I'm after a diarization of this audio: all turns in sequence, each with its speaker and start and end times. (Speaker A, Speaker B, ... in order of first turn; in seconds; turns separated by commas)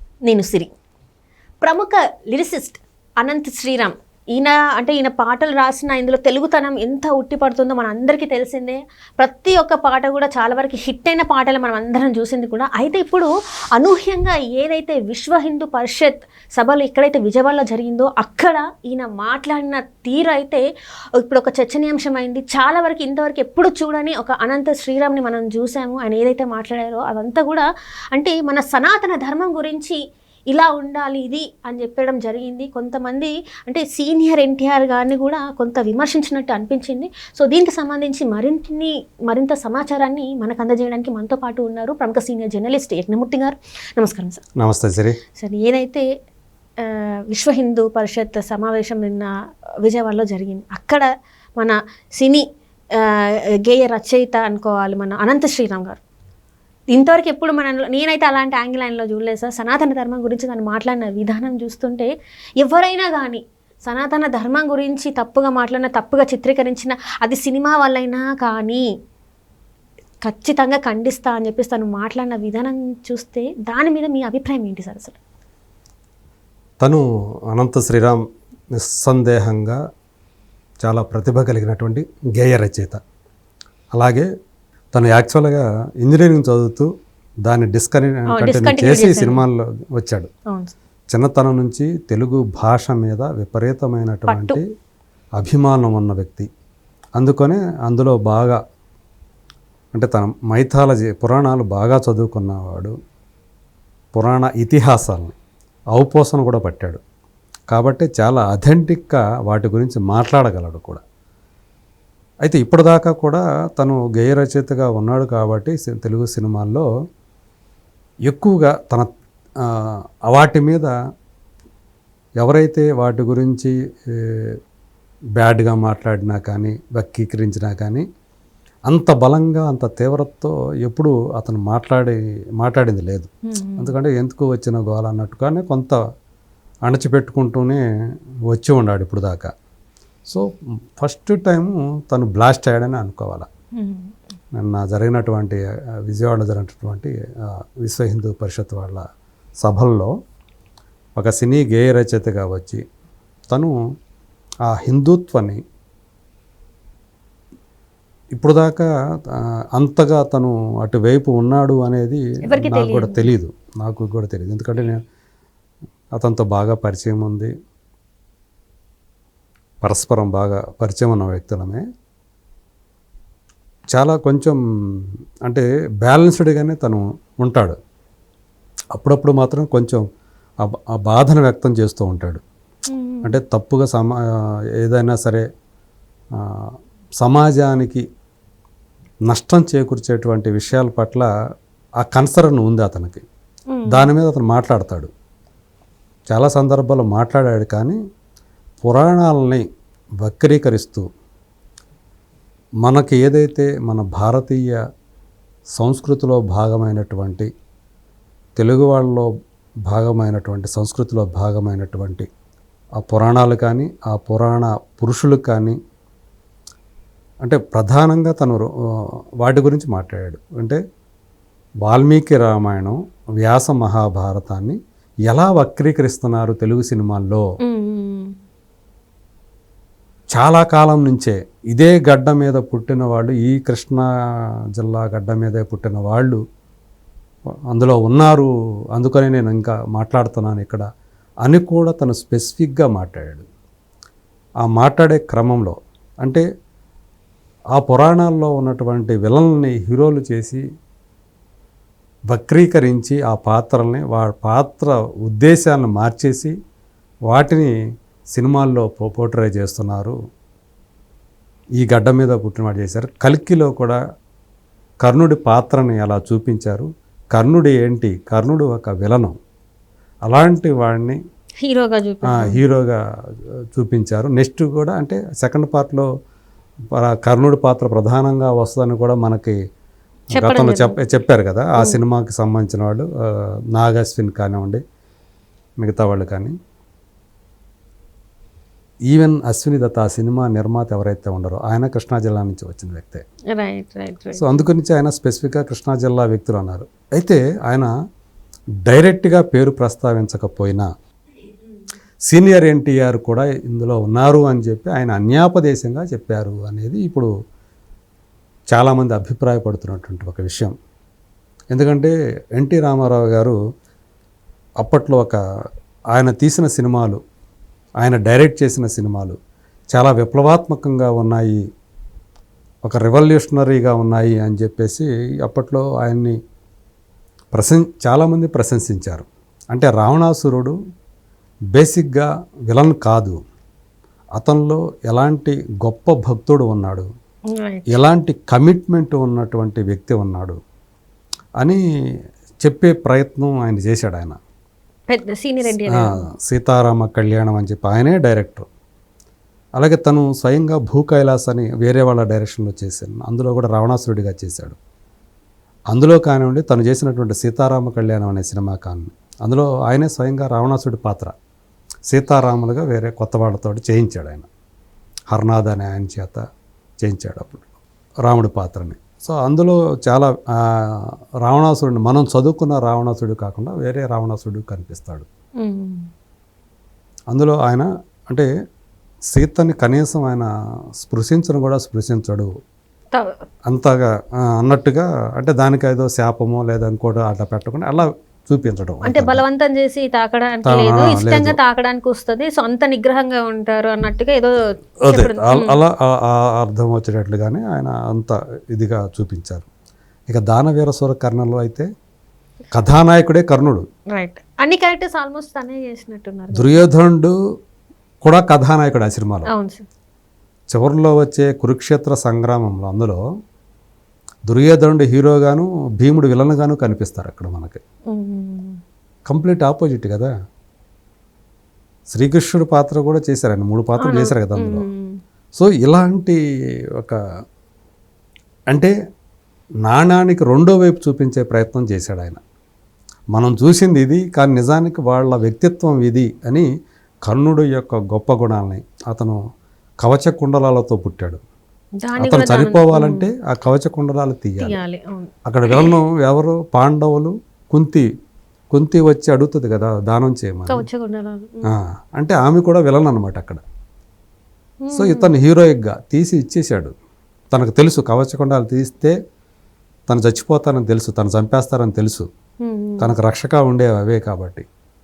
Speaker A: 0.2-0.7, Speaker A: 1.6-20.6, Speaker A: 21.2-30.0, Speaker A: 30.5-44.4, Speaker B: 44.6-45.2, Speaker A: 45.4-46.0, Speaker A: 46.8-49.3, Speaker A: 49.8-51.0, Speaker A: 51.6-56.0, Speaker A: 56.9-68.8, Speaker A: 70.2-75.2, Speaker B: 76.8-78.2, Speaker B: 78.7-79.8, Speaker B: 80.8-83.0, Speaker B: 83.9-84.3, Speaker B: 84.9-86.9, Speaker B: 87.5-90.3, Speaker A: 88.3-89.4, Speaker B: 91.1-94.6, Speaker A: 94.3-94.6, Speaker B: 95.4-96.5, Speaker B: 97.2-98.6, Speaker B: 99.9-102.9, Speaker B: 104.1-105.3, Speaker B: 105.9-107.0, Speaker B: 107.7-111.0, Speaker B: 112.4-116.8, Speaker B: 118.3-119.1, Speaker B: 119.6-120.9, Speaker B: 122.4-124.5, Speaker B: 125.4-128.0, Speaker B: 128.9-136.0, Speaker A: 133.5-133.9, Speaker B: 136.8-137.8, Speaker B: 138.5-139.5, Speaker B: 141.0-143.5, Speaker A: 143.8-144.1, Speaker B: 144.6-149.0, Speaker B: 149.6-150.1, Speaker B: 151.2-152.8, Speaker B: 154.7-155.6, Speaker B: 158.3-165.0, Speaker A: 162.5-163.3, Speaker B: 166.2-167.5, Speaker B: 169.8-171.8, Speaker B: 173.9-177.8, Speaker B: 178.9-180.0, Speaker B: 180.6-182.4, Speaker A: 182.9-183.3, Speaker B: 183.2-185.4, Speaker B: 186.4-186.7, Speaker B: 187.2-188.0, Speaker B: 189.3-191.3, Speaker B: 192.0-193.2, Speaker A: 193.7-194.1, Speaker B: 193.9-195.1, Speaker B: 196.3-198.0, Speaker B: 198.8-199.6, Speaker B: 200.2-201.0, Speaker B: 202.8-204.8, Speaker B: 205.8-207.5, Speaker B: 208.6-209.3, Speaker B: 209.9-212.3, Speaker B: 213.0-215.8, Speaker B: 217.4-218.7, Speaker B: 219.4-220.8, Speaker B: 221.8-227.4, Speaker A: 227.7-228.3, Speaker B: 230.3-234.1, Speaker B: 234.8-236.4, Speaker B: 237.7-240.8, Speaker B: 241.4-243.4, Speaker B: 244.6-246.4, Speaker B: 247.7-250.6, Speaker B: 252.3-256.5, Speaker B: 257.3-257.7, Speaker B: 258.3-260.1, Speaker B: 261.8-264.0, Speaker B: 265.0-269.3, Speaker B: 270.2-271.2, Speaker A: 271.6-272.6, Speaker B: 272.3-273.0, Speaker B: 273.7-276.1, Speaker B: 276.9-279.6, Speaker B: 280.3-283.1, Speaker A: 280.3-281.0, Speaker B: 283.7-284.8, Speaker B: 285.8-286.5, Speaker B: 289.1-293.2, Speaker A: 293.5-294.6, Speaker B: 294.4-297.9, Speaker B: 298.9-300.9, Speaker B: 302.3-307.3, Speaker B: 308.7-310.7, Speaker B: 311.7-313.6, Speaker B: 314.8-315.4, Speaker B: 316.1-317.2, Speaker B: 318.0-319.4, Speaker B: 319.9-321.6, Speaker B: 322.9-326.4, Speaker B: 327.5-330.7, Speaker B: 331.7-333.4, Speaker B: 334.4-337.1, Speaker A: 337.5-338.0, Speaker B: 337.9-340.6, Speaker B: 342.6-344.4, Speaker A: 345.1-346.2, Speaker B: 345.7-348.6, Speaker B: 349.8-354.8, Speaker B: 355.9-361.3, Speaker B: 362.1-364.5, Speaker B: 365.3-366.4, Speaker B: 367.0-367.7, Speaker B: 368.2-375.2, Speaker A: 375.6-376.1, Speaker B: 377.3-378.5, Speaker B: 379.3-380.5, Speaker B: 381.0-382.5, Speaker B: 383.7-389.4, Speaker A: 389.1-395.8, Speaker B: 390.6-391.6, Speaker B: 395.0-399.7, Speaker B: 400.3-401.9, Speaker B: 402.7-403.8, Speaker A: 404.1-406.9, Speaker B: 406.5-407.3, Speaker B: 408.2-409.5, Speaker A: 409.5-409.8, Speaker B: 410.7-413.2, Speaker B: 414.5-417.8, Speaker A: 418.1-418.8, Speaker B: 419.3-420.3, Speaker B: 422.1-424.9, Speaker A: 424.0-425.2, Speaker B: 425.5-426.4, Speaker B: 429.8-432.4, Speaker B: 433.3-436.7, Speaker B: 437.2-439.4, Speaker B: 440.0-441.4, Speaker A: 442.0-443.3, Speaker B: 442.2-444.8, Speaker A: 444.6-445.9, Speaker B: 445.4-448.0, Speaker B: 448.7-450.8, Speaker A: 450.7-451.7, Speaker B: 451.6-453.6, Speaker A: 454.8-455.3, Speaker B: 454.9-456.9, Speaker B: 457.5-459.1, Speaker B: 460.1-462.3, Speaker A: 462.6-463.1, Speaker B: 463.0-464.6